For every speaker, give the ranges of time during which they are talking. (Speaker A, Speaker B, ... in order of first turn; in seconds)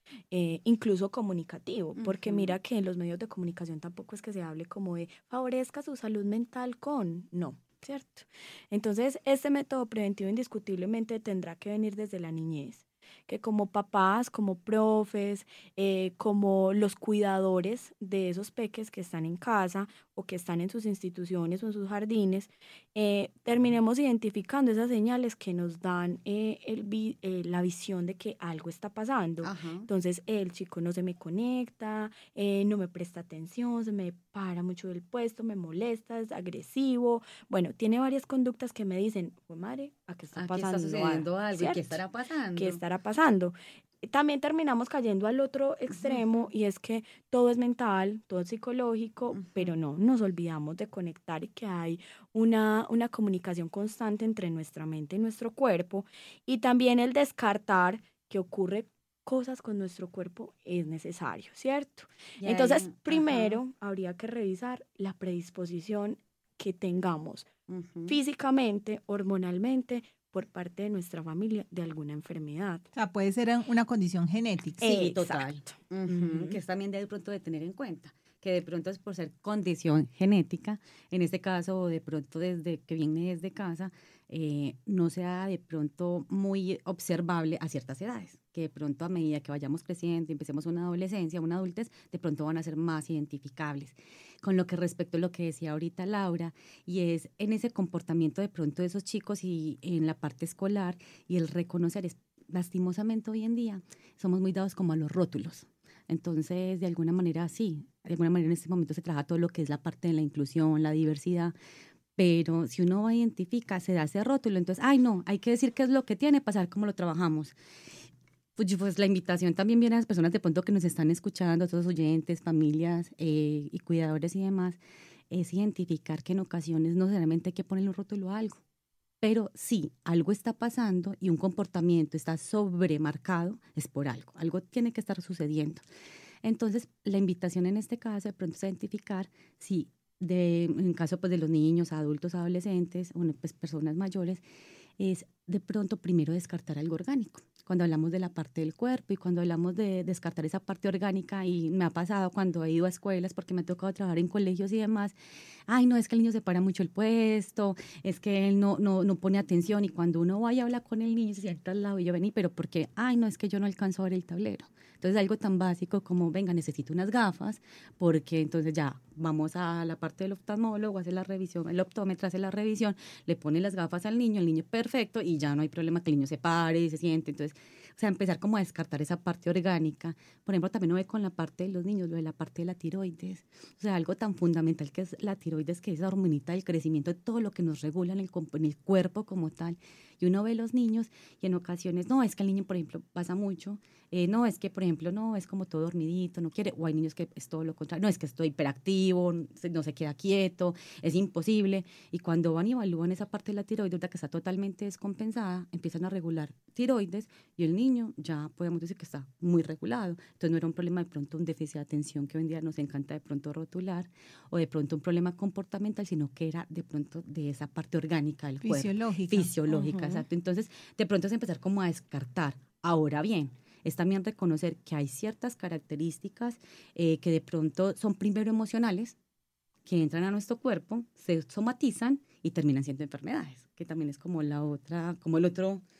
Speaker A: 0.3-42.0, 42.5-67.5, 68.1-72.8, 74.8-76.6, 219.7-220.2
Speaker B: 2.0-2.6, 29.4-29.9, 40.3-42.8, 45.9-46.5, 49.3-49.7, 62.4-63.6, 67.7-68.2, 74.8-111.5, 112.2-117.5, 118.6-124.8, 125.3-128.6, 129.2-135.8, 136.4-144.4, 145.0-155.2, 155.7-229.2, 229.8-235.8
Speaker C: 72.9-74.9, 218.6-219.5